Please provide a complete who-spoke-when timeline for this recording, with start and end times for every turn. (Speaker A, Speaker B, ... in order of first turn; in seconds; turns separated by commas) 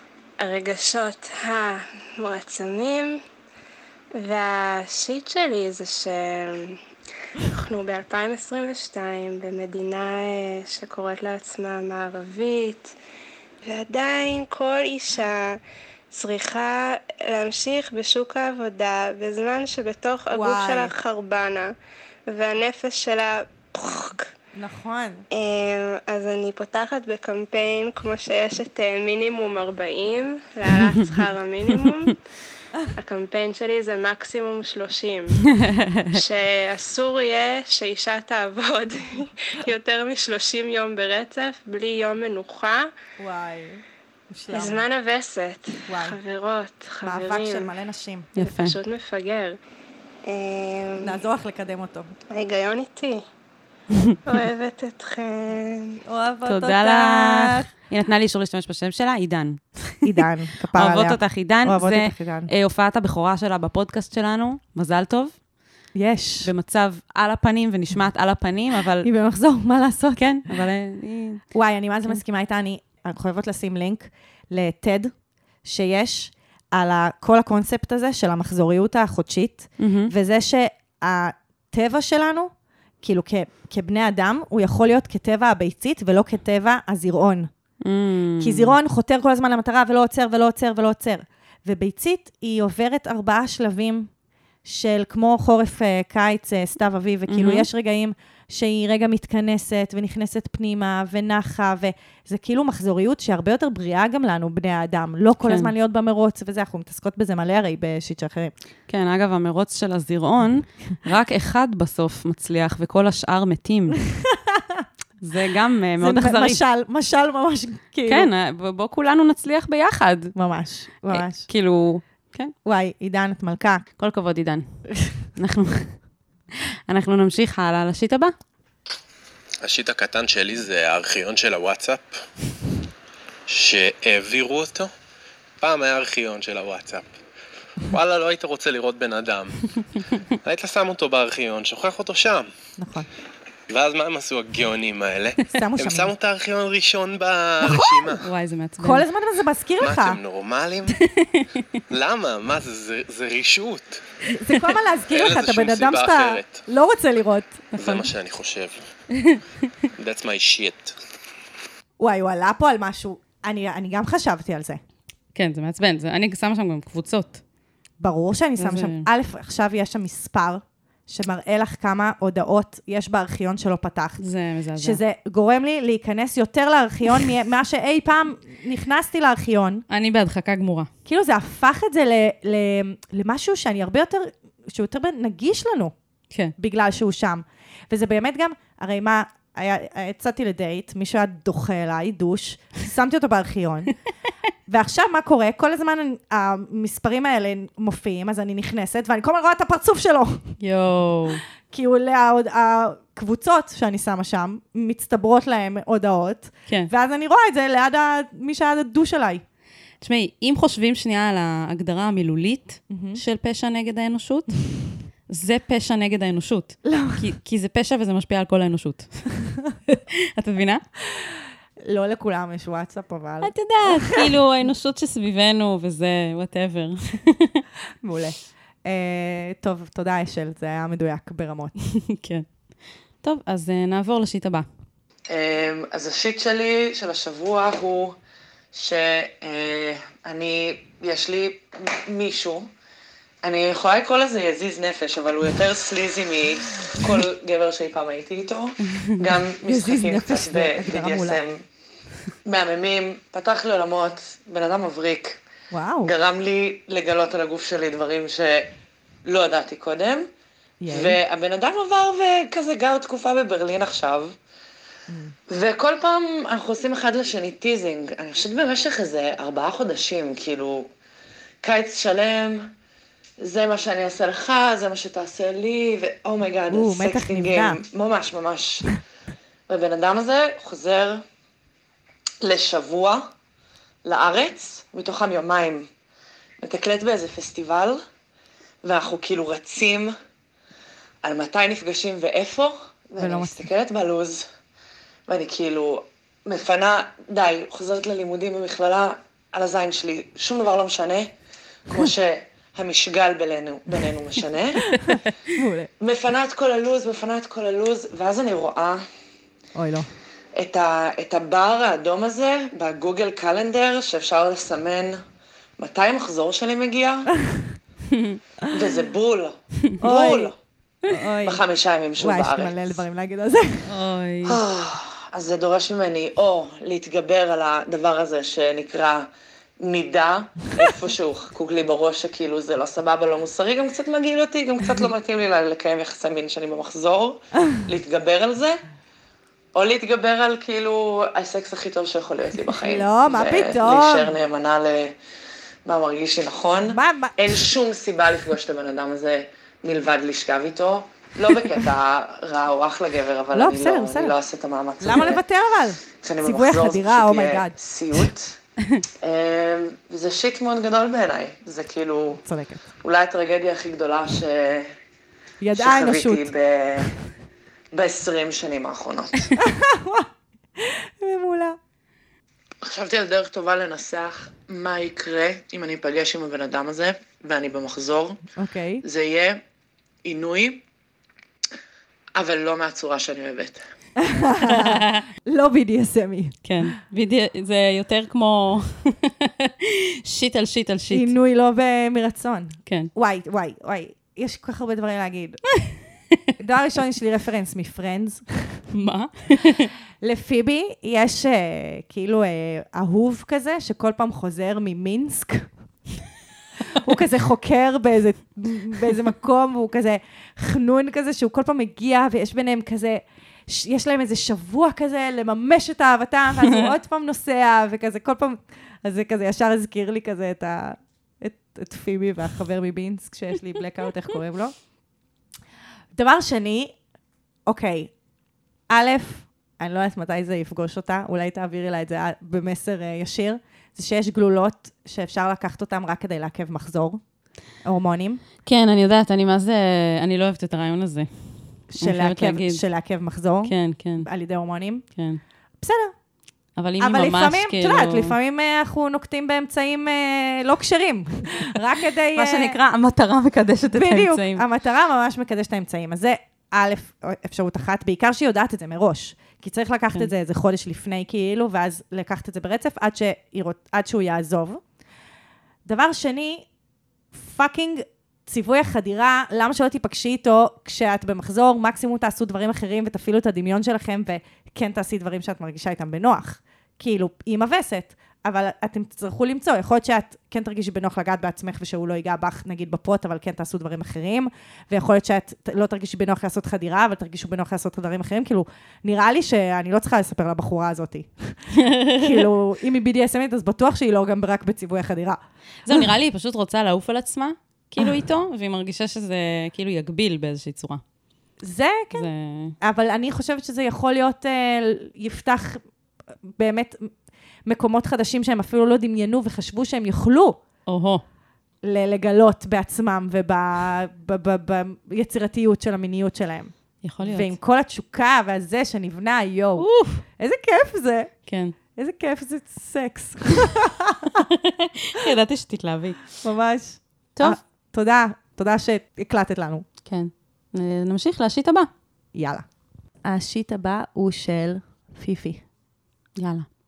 Speaker A: 0.4-3.2, Speaker A: 4.1-6.8, Speaker A: 7.5-12.9, Speaker A: 13.6-15.6, Speaker A: 16.1-21.7, Speaker B: 20.3-20.9, Speaker A: 22.3-24.3, Speaker B: 24.5-25.2, Speaker A: 25.3-32.2, Speaker A: 33.0-35.5, Speaker A: 36.1-42.9, Speaker B: 43.2-44.8, Speaker A: 44.5-47.7, Speaker B: 45.9-46.2, Speaker B: 47.0-48.3, Speaker C: 48.4-48.8, Speaker A: 48.4-49.6, Speaker A: 50.2-51.2, Speaker B: 51.0-52.1, Speaker A: 52.3-53.2, Speaker A: 54.2-56.0, Speaker B: 56.0-57.7, Speaker C: 56.5-60.0, Speaker B: 60.0-62.5, Speaker C: 60.7-65.4, Speaker B: 65.9-66.5, Speaker C: 66.4-69.1, Speaker B: 69.0-70.6, Speaker C: 70.2-71.5, Speaker B: 71.5-87.5, Speaker C: 79.8-80.1, Speaker C: 87.8-88.8, Speaker B: 88.4-94.1, Speaker B: 94.6-108.5, Speaker C: 97.3-97.7, Speaker C: 105.4-105.7, Speaker C: 108.9-114.0, Speaker B: 114.2-114.8, Speaker C: 115.2-116.6, Speaker B: 116.0-118.3, Speaker C: 118.1-120.3, Speaker B: 120.3-121.5, Speaker C: 121.1-122.5, Speaker B: 122.6-123.9, Speaker C: 124.0-126.1, Speaker C: 126.9-128.3, Speaker D: 129.6-132.2, Speaker D: 133.5-134.9, Speaker D: 135.6-137.1, Speaker D: 137.8-142.5, Speaker B: 142.8-143.1, Speaker D: 143.7-148.3, Speaker B: 145.5-146.1, Speaker C: 148.2-149.0, Speaker B: 148.8-150.2, Speaker D: 149.8-151.0, Speaker C: 151.2-151.8, Speaker D: 151.9-154.0, Speaker B: 154.3-158.0, Speaker D: 155.1-156.6, Speaker D: 157.7-158.8, Speaker D: 160.0-160.9, Speaker B: 162.0-164.8, Speaker C: 165.3-167.4, Speaker B: 168.0-179.8, Speaker C: 168.6-169.1, Speaker C: 174.2-175.0, Speaker C: 179.9-180.9, Speaker B: 181.1-185.9, Speaker B: 186.6-193.9, Speaker B: 194.7-200.6, Speaker C: 200.6-201.4, Speaker B: 201.7-209.4, Speaker C: 210.0-220.8, Speaker B: 212.9-213.2, Speaker B: 216.8-217.3, Speaker B: 221.8-224.3, Speaker C: 223.4-227.6, Speaker B: 228.0-231.8, Speaker C: 232.1-234.7, Speaker E: 235.3-238.1, Speaker E: 238.7-242.7, Speaker E: 243.4-251.6, Speaker B: 249.6-251.4, Speaker E: 252.4-255.4, Speaker B: 255.7-256.1, Speaker E: 256.0-258.7, Speaker E: 259.2-260.3, Speaker B: 260.8-261.2, Speaker E: 260.9-264.3, Speaker B: 265.1-265.3, Speaker E: 265.5-270.9, Speaker E: 271.6-272.7, Speaker E: 273.4-279.0, Speaker B: 276.7-277.8, Speaker E: 279.7-281.2, Speaker E: 282.4-283.2, Speaker E: 284.0-285.9, Speaker E: 286.6-288.0, Speaker E: 288.8-290.1, Speaker E: 291.2-294.4, Speaker B: 293.2-293.6, Speaker E: 295.3-301.3, Speaker E: 301.9-304.8, Speaker B: 304.9-305.9, Speaker E: 306.0-309.0, Speaker B: 309.7-310.1, Speaker E: 310.6-315.2, Speaker E: 315.8-317.3, Speaker E: 318.7-320.6, Speaker B: 320.0-320.5, Speaker B: 321.1-321.6, Speaker E: 321.4-323.0, Speaker B: 322.2-323.9, Speaker C: 323.9-324.6, Speaker E: 324.4-329.3, Speaker E: 329.8-338.8, Speaker E: 339.7-345.1, Speaker B: 342.7-344.4, Speaker E: 345.8-355.4, Speaker B: 346.8-347.4, Speaker B: 353.5-354.4, Speaker B: 355.0-357.7, Speaker E: 356.2-358.6, Speaker E: 359.2-362.4, Speaker B: 362.4-362.9, Speaker E: 363.0-364.9, Speaker B: 365.6-366.5, Speaker E: 365.8-367.2, Speaker E: 367.9-369.5, Speaker B: 369.6-371.8, Speaker E: 372.8-378.4, Speaker B: 378.6-379.0, Speaker E: 379.0-379.6, Speaker E: 380.2-380.8, Speaker E: 382.4-383.8, Speaker B: 384.2-386.6, Speaker C: 384.7-385.2, Speaker C: 386.6-389.7, Speaker C: 390.2-391.3, Speaker B: 391.1-395.8, Speaker C: 392.9-393.1, Speaker B: 396.6-398.8, Speaker C: 398.9-399.9, Speaker B: 400.2-405.7, Speaker B: 406.9-424.7, Speaker C: 416.6-416.9, Speaker B: 426.1-427.0, Speaker B: 427.6-428.1, Speaker B: 428.9-437.2, Speaker B: 437.8-438.4, Speaker C: 438.6-442.8, Speaker B: 441.9-445.1, Speaker C: 443.6-444.3, Speaker C: 445.1-445.4, Speaker B: 445.8-446.1, Speaker C: 446.8-448.3, Speaker B: 447.0-452.8, Speaker C: 452.4-454.6, Speaker B: 453.9-464.8, Speaker B: 465.8-466.7, Speaker B: 467.3-496.1, Speaker C: 491.8-492.4, Speaker C: 495.9-501.0, Speaker B: 501.6-505.8, Speaker C: 502.1-502.7, Speaker B: 506.5-507.1, Speaker B: 507.6-510.6, Speaker C: 510.9-511.2, Speaker B: 511.8-524.3, Speaker C: 517.0-517.5, Speaker C: 519.8-520.2, Speaker C: 521.5-521.7, Speaker C: 525.1-526.4, Speaker B: 526.4-529.8, Speaker C: 530.1-531.9, Speaker B: 532.3-532.6, Speaker B: 533.2-535.6, Speaker C: 536.4-536.6